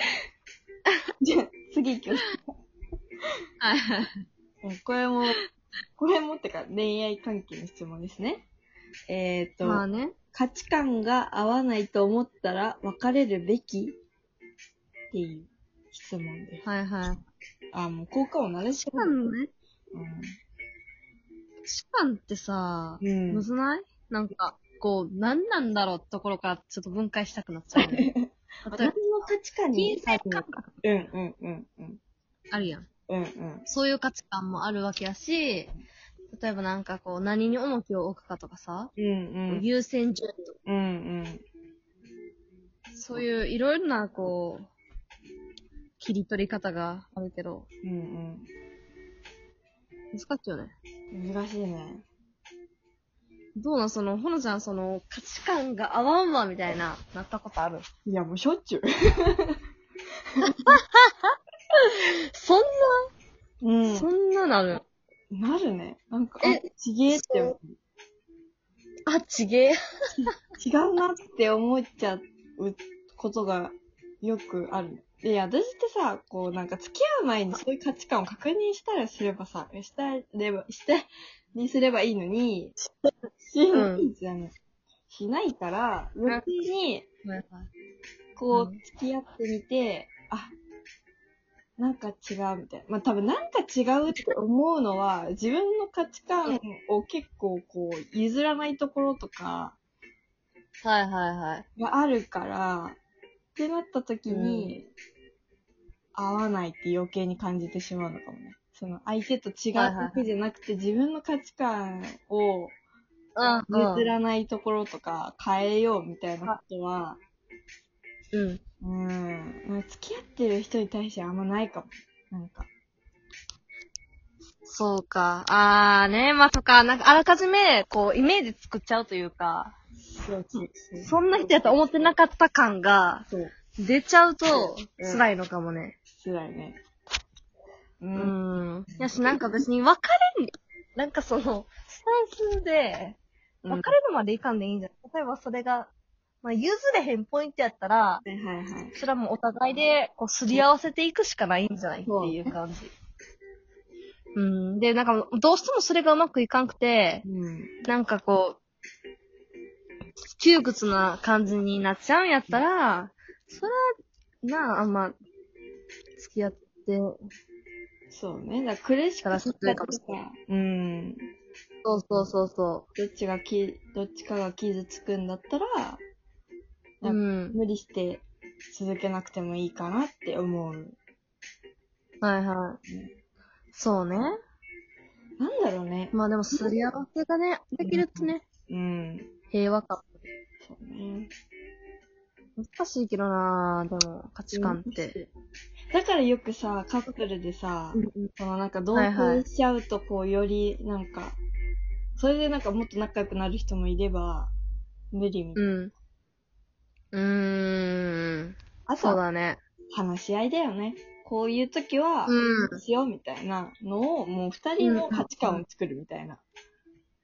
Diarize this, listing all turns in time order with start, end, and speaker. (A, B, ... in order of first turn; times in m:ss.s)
0:01.2-0:02.4 A
0:03.6-0:04.2 B
0:04.6-0:05.4 A
0:06.0-0:08.5 A
0:09.1-0:14.0 A
0:09.6-0:10.2 B
0:15.1-0:16.7 A
0:16.6-0:17.2 B
0:17.7-0:19.2 A
0:18.8-0:19.5 B
0:19.9-0:20.3 A
0:21.7-0:28.1 B
0:23.0-0:23.5 A
0:27.8-0:32.0 A
0:28.7-0:28.9 B
0:29.7-0:30.8 B
0:32.5-0:32.9 B
0:33.1-0:33.7 A
0:33.7-0:35.7 B
0:36.3-0:38.9 B
0:39.0-0:39.6 A
0:39.5-0:40.5 B
0:40.7-0:41.4 A
0:43.0-0:44.7 B
0:46.0-0:47.7 B
0:47.8-0:48.5 A
0:50.1-0:50.7 B
0:51.1-0:52.0 A
0:53.6-0:57.9 B
0:58.1-0:59.6 A
1:00.4-1:00.6 A
1:00.4-1:01.3 B
1:01.9-1:03.1 B
1:03.6-1:04.1 A
1:03.9-1:04.8 B
1:05.3-1:07.8 A
1:06.4-1:07.6 B
1:09.1-1:09.8 B
1:10.2-1:22.7 A
1:23.4-1:24.5 A
1:23.7-1:24.1 B
1:25.1-1:27.1 A
1:27.2-1:27.7 B
1:28.4-1:30.5 A
1:28.5-1:28.8 B
1:31.8-1:39.8 A
1:40.8-1:41.6 B
1:41.8-1:43.0 A
1:43.6-1:44.9 A
1:44.3-1:44.8 B
1:46.2-1:52.8 A
1:49.7-1:50.2 B
1:53.4-1:54.1 B
1:53.7-1:57.2 A
1:58.3-1:58.6 B
1:58.8-2:02.7 A
2:04.6-2:09.7 B
2:10.0-2:11.6 A
2:10.6-2:13.3 B
2:13.3-2:13.6 A
2:13.8-2:16.0 B
2:14.5-2:15.3 A
2:16.2-2:16.8 A
2:18.0-2:18.4 A
2:18.2-2:23.2 B
2:18.9-2:19.4 A
2:23.6-2:24.0 A
2:23.7-2:25.9 B
2:26.4-2:28.2 B
2:28.2-2:29.0 A
2:29.0-2:32.9 B
2:32.1-2:32.4 A
2:34.4-2:37.2 B
2:37.2-2:37.7 A
2:37.8-2:38.6 B
2:40.3-2:43.7 B
2:44.4-2:45.2 B
2:46.2-2:47.2 B
2:48.1-2:51.3 A
2:49.2-2:50.2 B
2:51.8-2:52.8 B
2:53.0-2:56.0 A
2:57.0-3:01.0 A
2:57.0-2:57.6 B
3:02.2-3:02.8 B
3:02.9-3:03.1 A
3:03.7-3:04.4 B
3:05.4-3:06.7 A
3:06.1-3:08.4 B
3:07.8-3:09.3 A
3:09.5-3:10.1 B
3:10.6-3:11.3 A
3:12.6-3:15.2 B
3:14.5-3:15.3 A
3:15.9-3:21.4 A
3:17.9-3:18.3 B
3:19.0-3:19.4 B
3:22.2-3:24.5 A
3:25.1-3:25.7 A
3:25.6-3:25.9 B
3:27.1-3:29.6 B
3:28.9-3:29.2 A
3:29.9-3:36.4 A
3:32.3-3:32.8 B
3:34.8-3:35.6 B